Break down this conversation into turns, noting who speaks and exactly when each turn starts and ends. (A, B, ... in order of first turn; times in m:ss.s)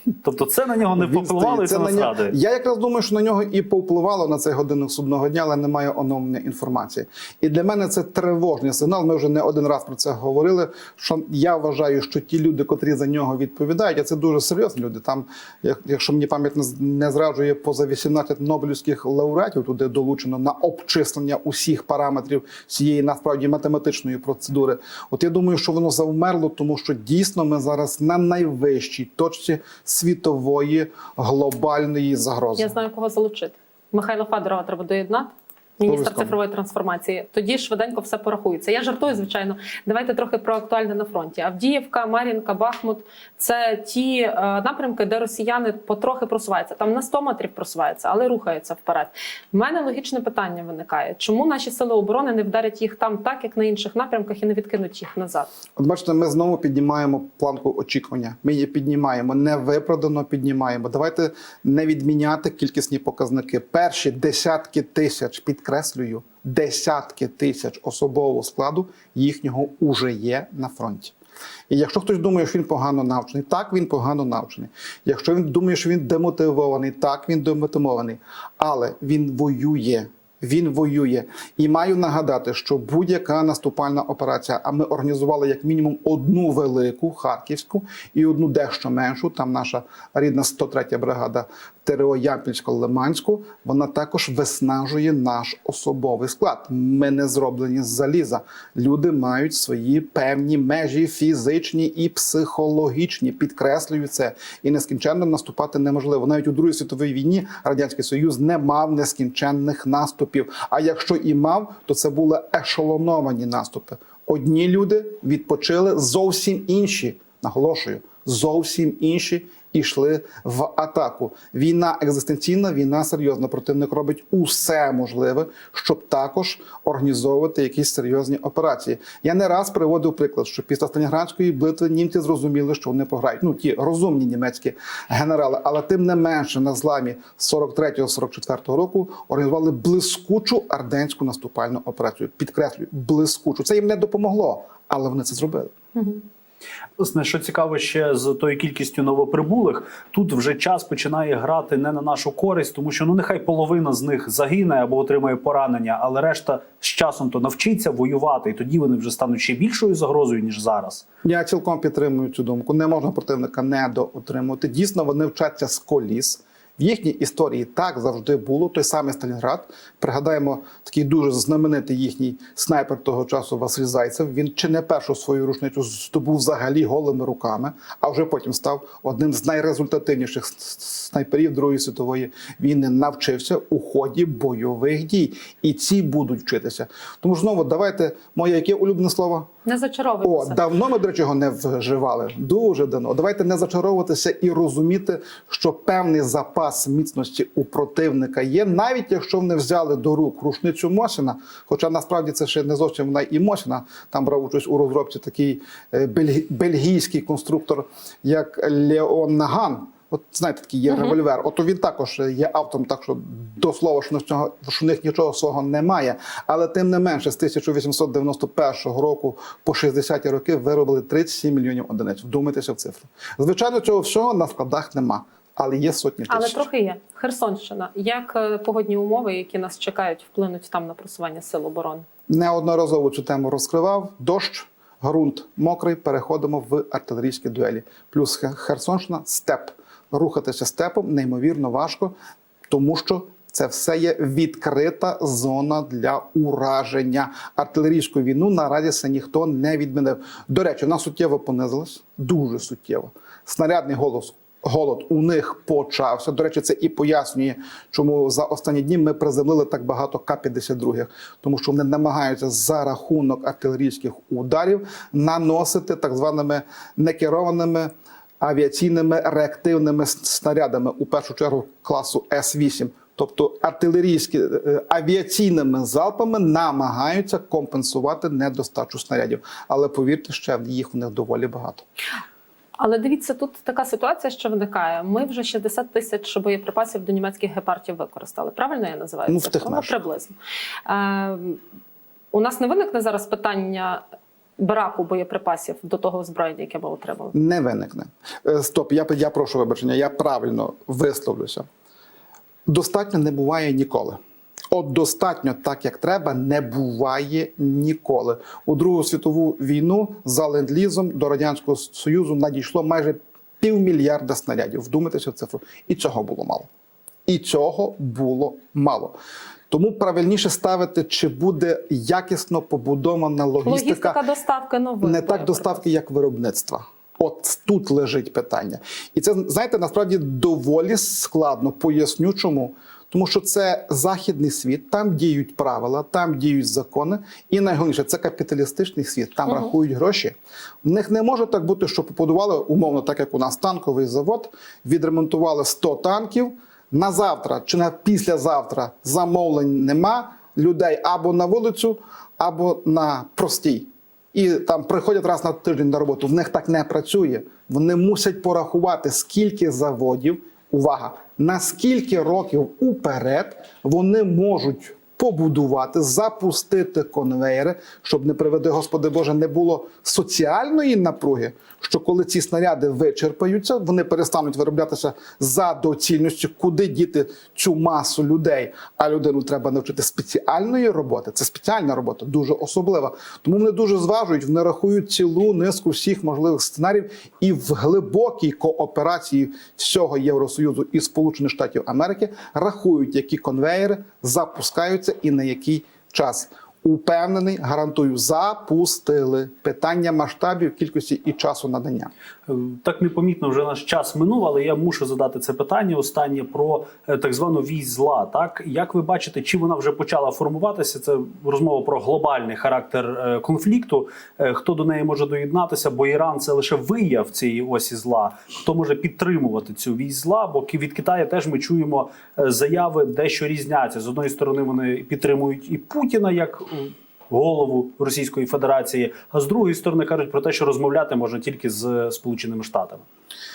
0:00.2-0:02.4 A
0:01.0-0:32.8 B
0:32.6-0:55.5 C
0:35.8-0:36.4 B
0:55.8-1:11.2 B
1:11.7-2:25.7 B
2:26.0-2:26.2 C
2:27.0-2:41.0 A
2:41.2-3:09.5 B
3:09.7-3:10.6 C
3:10.2-3:46.7 B
3:46.3-3:52.0 C
3:52.3-4:02.2 B
4:02.7-4:41.8 B
4:42.8-4:50.3 C
4:49.3-4:50.0 B
4:50.9-4:51.6 C
4:52.3-4:54.0 C
4:54.6-4:57.3 C
4:57.3-5:01.7 B
5:02.7-5:04.2 B
5:04.7-5:16.7 B
5:17.3-5:19.2 B
5:19.7-5:24.2 B
5:23.6-5:25.8 C
5:25.0-6:42.1 B
6:42.5-7:13.0 A